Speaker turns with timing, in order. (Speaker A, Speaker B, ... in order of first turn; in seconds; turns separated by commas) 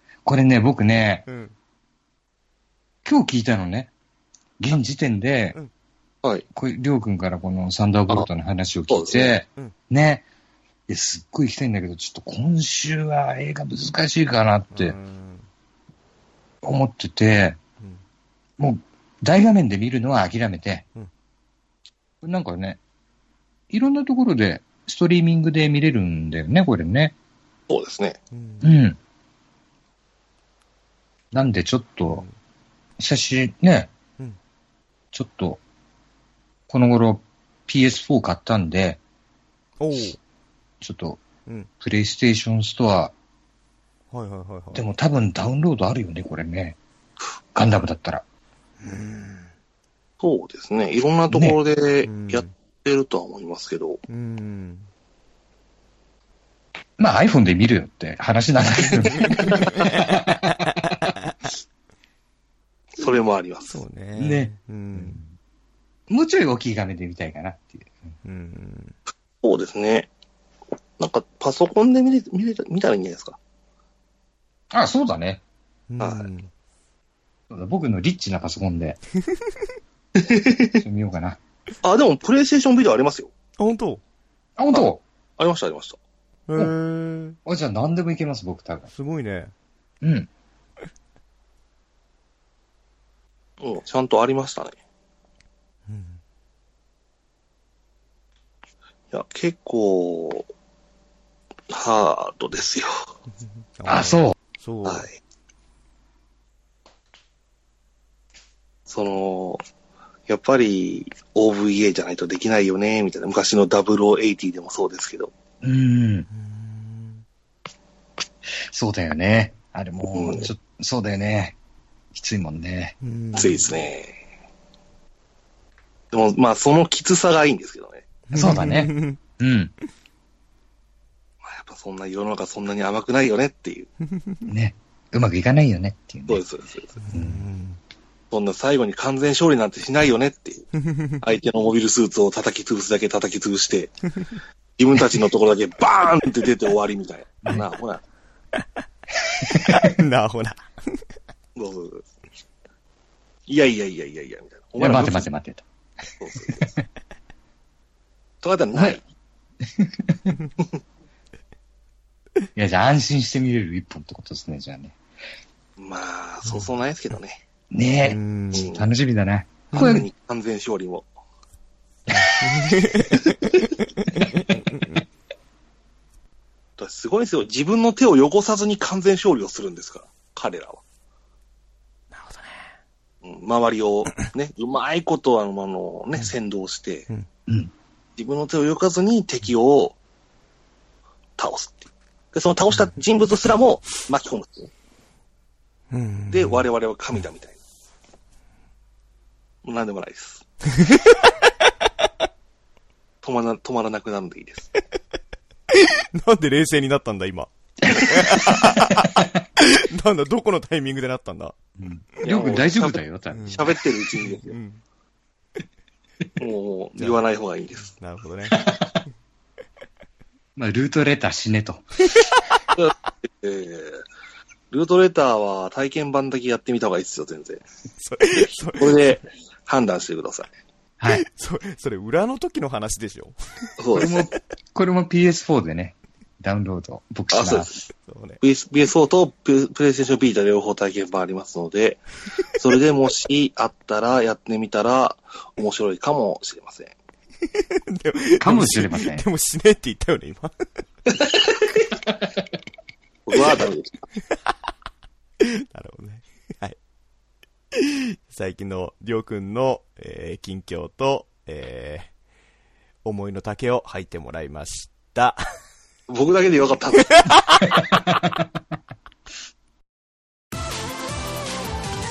Speaker A: 0.2-1.2, Speaker B: 1.2-1.5, Speaker A: 3.0-3.9, Speaker A: 4.6-5.5, Speaker A: 6.5-10.2, Speaker C: 8.9-9.3, Speaker A: 10.9-14.9, Speaker B: 14.7-15.5, Speaker A: 16.6-17.6, Speaker A: 18.6-20.8, Speaker A: 22.2-22.8, Speaker A: 23.7-27.1, Speaker C: 27.7-28.2, Speaker B: 28.3-28.7, Speaker A: 28.6-29.0, Speaker A: 31.3-32.2, Speaker A: 33.0-33.9, Speaker A: 35.1-35.6, Speaker A: 36.7-39.0, Speaker B: 39.8-40.2, Speaker A: 40.8-41.2, Speaker A: 41.8-43.1, Speaker B: 44.1-44.9, Speaker A: 44.7-46.8, Speaker A: 47.5-48.2, Speaker B: 48.8-49.5, Speaker C: 50.2-54.0, Speaker A: 51.3-51.6, Speaker B: 52.0-52.5, Speaker B: 54.1-54.9, Speaker A: 57.0-60.5, Speaker B: 59.0-61.3, Speaker C: 63.0-63.8, Speaker B: 63.7-65.2, Speaker A: 64.2-65.3, Speaker A: 66.1-67.9, Speaker B: 68.2-69.0, Speaker C: 69.4-70.1, Speaker C: 71.0-73.4, Speaker A: 74.7-75.4, Speaker B: 75.9-76.5, Speaker C: 76.0-76.3, Speaker A: 77.5-79.0, Speaker C: 80.2-80.8, Speaker A: 80.8-81.4, Speaker C: 81.8-83.3, Speaker B: 83.6-84.0, Speaker A: 84.6-85.0, Speaker C: 85.4-86.0, Speaker B: 86.5-87.4, Speaker A: 87.4-88.9, Speaker B: 88.9-89.5, Speaker A: 90.0-90.3, Speaker C: 93.6-94.8, Speaker B: 95.9-96.2, Speaker C: 99.1-100.5, Speaker C: 101.7-103.0, Speaker B: 103.8-105.1, Speaker A: 103.9-104.3, Speaker C: 104.8-105.2, Speaker C: 108.9-109.6, Speaker C: 110.3-115.3, Speaker A: 115.6-116.3, Speaker B: 116.3-117.2, Speaker A: 118.7-121.5, Speaker C: 120.1-120.5, Speaker A: 122.1-123.0, Speaker B: 123.0-123.7, Speaker C: 123.3-124.2, Speaker C: 126.1-128.1, Speaker B: 128.3-129.2, Speaker A: 128.3-129.7, Speaker C: 131.4-133.9, Speaker B: 134.1-134.5, Speaker A: 134.5-136.4, Speaker C: 136.3-137.0, Speaker B: 137.0-137.8, Speaker A: 137.1-137.4, Speaker C: 138.3-140.7, Speaker B: 140.8-141.2, Speaker C: 141.2-143.9, Speaker C: 144.8-148.0, Speaker A: 149.4-149.9, Speaker B: 149.4-151.0, Speaker C: 151.6-152.1, Speaker C: 153.5-155.3, Speaker A: 154.8-155.6, Speaker C: 156.2-156.7, Speaker C: 158.4-159.0, Speaker A: 159.6-160.3, Speaker A: 162.6-164.9, Speaker C: 165.8-167.4, Speaker A: 167.7-170.1, Speaker B: 168.0-168.7, Speaker C: 168.5-168.9, Speaker C: 169.7-171.1, Speaker B: 169.7-170.0, Speaker B: 172.2-175.0, Speaker C: 173.2-173.7, Speaker C: 176.8-180.8, Speaker B: 182.1-182.7, Speaker C: 183.2-187.1, Speaker C: 188.2-189.9, Speaker C: 191.4-194.7, Speaker B: 195.9-196.7, Speaker C: 196.3-197.6, Speaker C: 199.6-200.4, Speaker B: 200.7-201.5, Speaker C: 203.2-204.7, Speaker B: 205.7-211.5, Speaker A: 207.9-209.2, Speaker A: 211.8-213.7, Speaker C: 212.2-214.6, Speaker B: 213.3-214.8, Speaker C: 216.4-217.9, Speaker B: 217.9-218.7, Speaker A: 220.6-221.8, Speaker B: 222.1-222.7, Speaker C: 222.7-224.0, Speaker C: 224.7-227.6, Speaker B: 228.0-229.2, Speaker C: 228.3-230.5, Speaker A: 231.0-231.2, Speaker B: 231.1-234.2, Speaker C: 233.8-234.2, Speaker A: 234.0-237.7, Speaker C: 237.3-237.9, Speaker B: 238.0-238.4, Speaker C: 238.4-242.0, Speaker C: 242.5-246.9, Speaker B: 247.5-250.5, Speaker A: 248.4-249.2, Speaker C: 251.2-251.6, Speaker C: 253.2-254.0, Speaker B: 255.4-256.8, Speaker B: 257.7-262.1, Speaker B: 263.0-265.4, Speaker C: 266.1-267.2, Speaker B: 267.1-267.8